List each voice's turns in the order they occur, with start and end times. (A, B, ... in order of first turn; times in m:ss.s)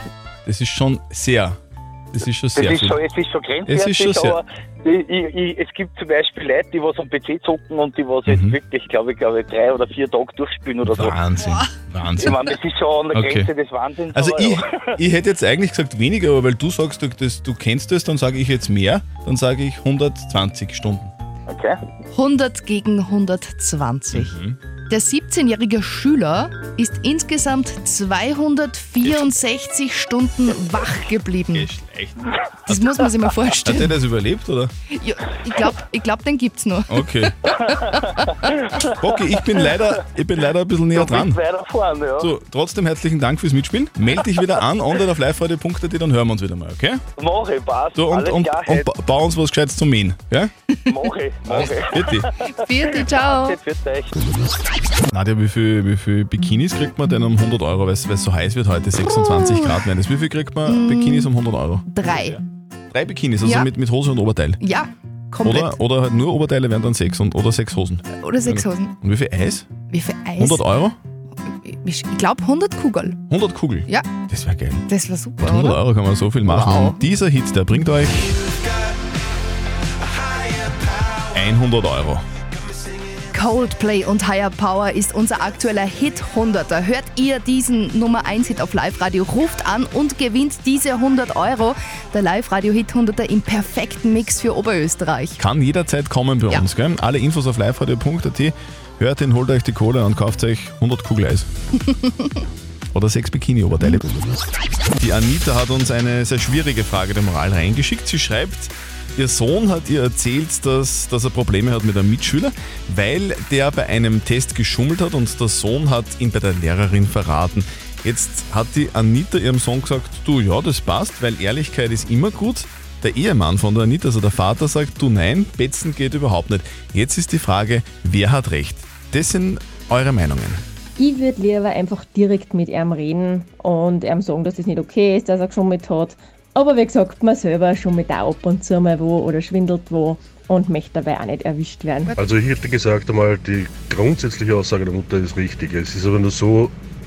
0:00.4-0:01.6 A
0:02.1-0:03.0 A
0:02.6-0:11.2 B
0:03.7-0:04.4 A
0:08.3-0:08.6 A
0:10.9-0:12.5 A
0:12.2-0:14.9 B
0:13.1-0:13.5 A
0:14.1-0:21.1 A
0:21.5-0:21.8 B
0:22.1-0:24.4 C
0:24.1-0:24.6 A
0:24.9-0:31.7 C
0:29.0-0:29.4 A
0:31.5-0:32.8 A
0:32.7-0:34.0 C
0:33.6-0:34.7 A
0:34.9-0:37.8 C
0:36.9-0:37.4 A
0:39.0-0:41.4 A
0:40.9-0:42.3 B
0:42.2-0:47.0 A
0:47.2-0:48.9 B
0:48.0-0:50.5 A
0:50.9-0:52.3 B
0:51.5-0:52.3 A
0:52.6-0:53.6 C
0:52.9-0:54.1 B
0:55.1-1:02.3 A
0:59.2-0:59.6 C
1:00.7-1:01.3 C
1:01.9-1:02.4 C
1:02.9-1:04.6 A
1:03.4-1:03.7 C
1:04.6-1:05.8 C
1:05.4-1:09.7 A
1:08.1-1:08.9 C
1:09.9-1:10.6 C
1:10.4-1:11.0 A
1:11.4-1:13.2 C
1:13.3-1:14.9 A
1:14.9-1:15.8 C
1:15.4-1:18.4 A
1:16.4-1:17.0 C
1:21.3-1:22.2 A
1:23.3-1:35.4 C
1:35.4-1:41.5 A
1:42.9-1:44.0 A
1:45.0-2:10.6 A
2:11.0-2:22.2 D
2:22.2-2:26.7 E